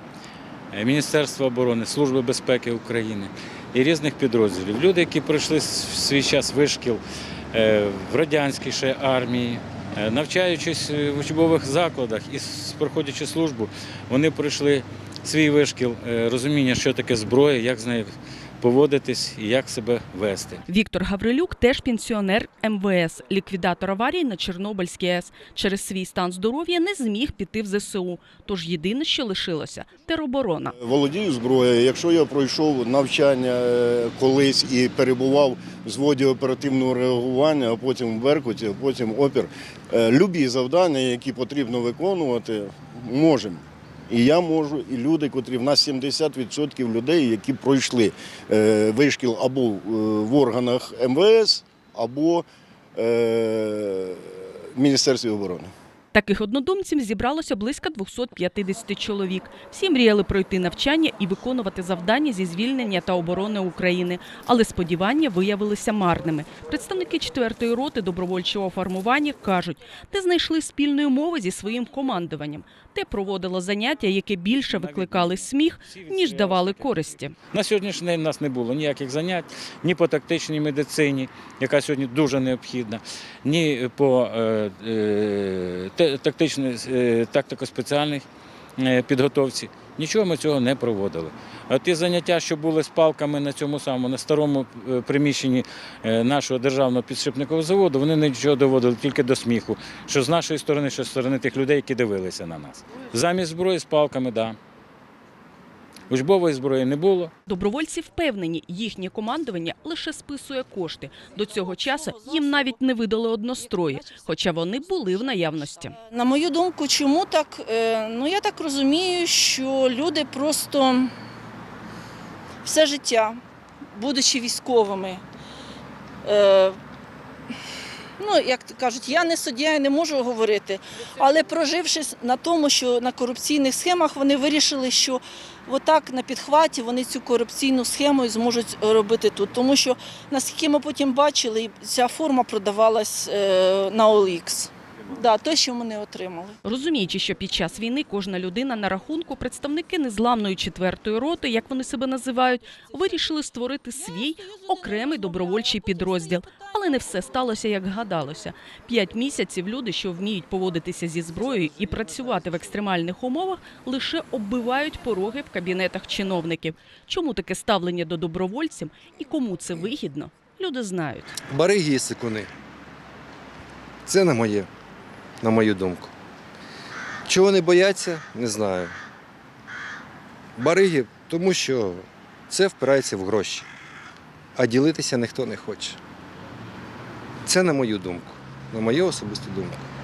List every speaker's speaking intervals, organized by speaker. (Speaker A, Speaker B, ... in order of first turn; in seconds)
Speaker A: 0.7-7.0, 7.5-20.6, 74.6-88.2, 88.8-104.6, 106.1-107.3
Speaker B: 20.7-30.8, 56.1-77.3, 107.5-116.0, 146.6-171.4
Speaker C: 30.8-55.7
Speaker D: 111.5-112.8, 113.7-114.2, 115.9-121.1, 122.6-123.4, 123.9-125.2, 126.2-126.8, 128.2-146.6, 154.9-156.1
Speaker E: 171.5-172.5, 174.1-174.7, 175.4-176.1, 177.3-178.9, 180.6-183.7, 184.6-186.0, 187.4-189.8